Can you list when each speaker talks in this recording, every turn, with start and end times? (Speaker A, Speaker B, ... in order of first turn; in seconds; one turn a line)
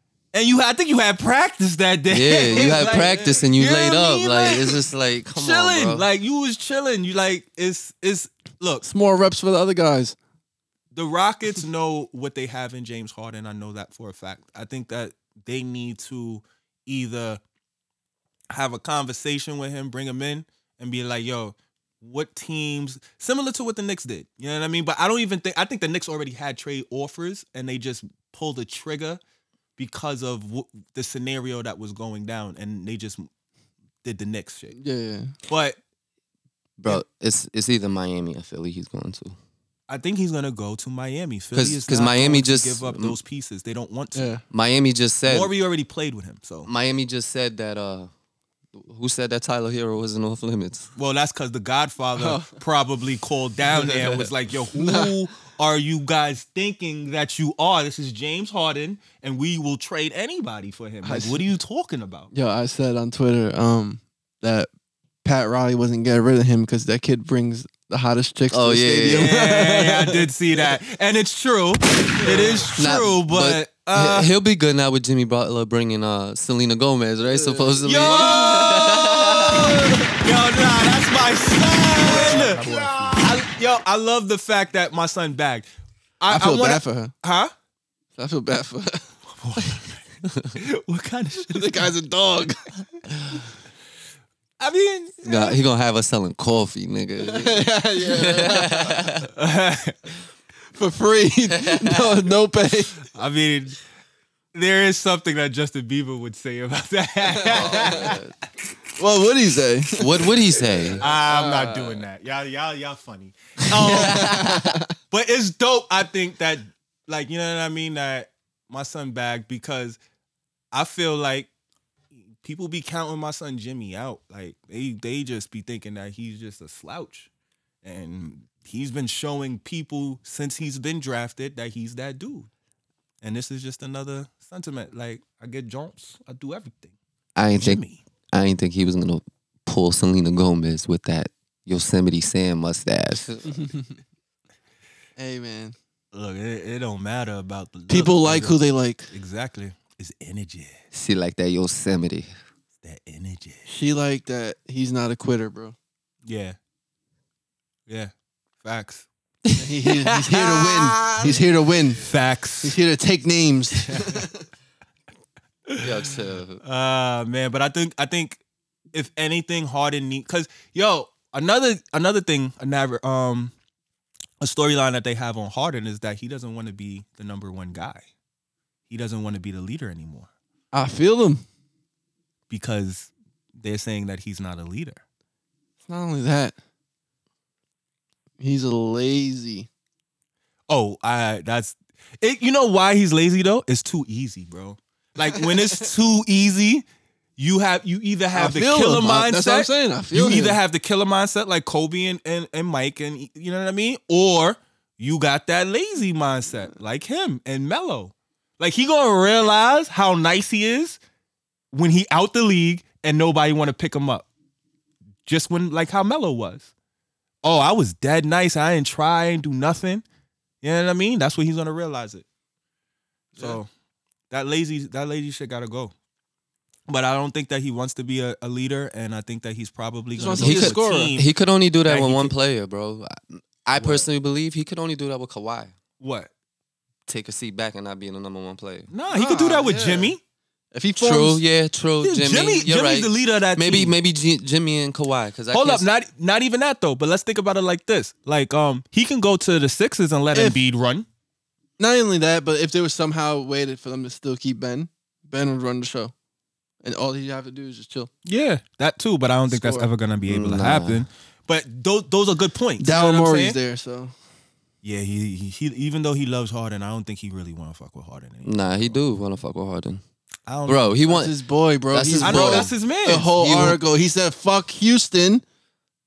Speaker A: 0.3-8.8
Speaker B: 2.1-6.1
Speaker C: 2.5-3.5
Speaker C: 8.8-10.2
Speaker A: 10.9-17.4
Speaker A: 18.5-29.2
Speaker A: 29.8-33.3
Speaker A: 34.0-34.8
Speaker C: 34.8-35.3
Speaker A: 35.5-35.8
Speaker B: 36.8-39.4
Speaker A: 39.9-44.3
Speaker B: 41.5-43.2
Speaker C: 44.1-44.4
Speaker B: 44.5-45.5
Speaker A: 45.3-46.7
Speaker B: 46.6-48.1
Speaker B: 48.8-50.9
Speaker A: 51.0-62.3
Speaker C: 52.1-52.6
Speaker C: 53.7-55.1
Speaker C: 61.0-61.4
Speaker C: 62.3-64.7
Speaker C: 65.2-70.3
Speaker B: 68.5-69.4
Speaker A: 69.1-74.3
Speaker C: 72.2-72.7
Speaker B: 72.8-79.9
Speaker C: 77.3-78.1
Speaker A: 77.8-85.7
Speaker B: 82.0-83.2
Speaker C: 82.1-83.1
Speaker A: 86.2-87.5
Speaker C: 86.3-87.1
Speaker C: 88.2-89.1
Speaker A: 89.3-90.0
Speaker A: 90.5-91.9
Speaker C: 91.5-92.7
Speaker A: 94.6-95.5
Speaker B: 95.2-99.3
Speaker C: 97.2-99.1
Speaker A: 99.2-100.0
Speaker C: 100.7-103.0
Speaker B: 101.7-102.1
Speaker A: 103.1-103.8
Speaker A: 104.5-108.2
Speaker C: 107.3-108.1
Speaker B: 107.5-108.3
Speaker C: 109.0-110.3
Speaker B: 110.0-111.0
Speaker A: 111.0-114.5
Speaker C: 111.0-112.0
Speaker C: 113.8-114.8
Speaker B: 113.9-114.7
Speaker A: 115.1-120.0
Speaker A: 120.7-121.5
Speaker A: 122.1-127.3
Speaker A: 127.8-132.5
Speaker A: 133.2-136.9
Speaker B: 137.4-137.8
Speaker A: 137.5-138.0
Speaker B: 138.3-143.7
Speaker C: 143.5-143.9
Speaker C: 145.2-145.8
Speaker A: 146.1-148.6
Speaker C: 147.9-149.1
Speaker A: 149.1-150.8
Speaker B: 150.9-152.3
Speaker A: 152.8-153.7
Speaker C: 153.7-155.8
Speaker A: 156.3-156.6
Speaker A: 157.9-159.1
Speaker B: 159.4-161.4
Speaker C: 159.6-162.1
Speaker A: 162.0-162.8
Speaker C: 162.6-164.4
Speaker A: 163.9-164.3
Speaker A: 165.7-168.4
Speaker B: 165.8-166.6
Speaker A: 168.9-173.5
Speaker A: 174.4-178.1
Speaker A: 178.9-180.3
Speaker C: 180.7-181.4
Speaker A: 182.5-185.0
Speaker C: 185.8-186.6
Speaker C: 188.4-189.7
Speaker A: 190.7-196.8
Speaker A: 197.4-211.0
Speaker C: 198.3-200.6
Speaker A: 211.7-214.3
Speaker A: 215.2-216.7
Speaker A: 217.4-220.0
Speaker A: 220.6-222.2
Speaker A: 223.4-223.7
Speaker A: 224.3-225.9
Speaker A: 226.9-231.3
Speaker C: 230.2-231.2
Speaker B: 230.4-235.7
Speaker A: 231.8-232.3
Speaker A: 233.8-234.1
Speaker A: 236.0-236.3
Speaker B: 237.1-238.9
Speaker A: 238.9-240.2
Speaker C: 239.1-240.2
Speaker C: 240.7-241.4
Speaker B: 241.0-245.8
Speaker A: 242.0-244.0
Speaker A: 245.5-251.1
Speaker C: 250.3-250.6
Speaker C: 251.8-256.1
Speaker C: 256.8-258.1
Speaker A: 258.2-263.6
Speaker C: 259.5-259.9
Speaker B: 260.2-261.0
Speaker C: 262.8-264.1
Speaker A: 264.8-269.0
Speaker B: 268.4-270.0
Speaker A: 270.5-271.0
Speaker B: 270.6-271.3
Speaker C: 271.1-275.4
Speaker B: 271.9-273.8
Speaker A: 272.2-273.3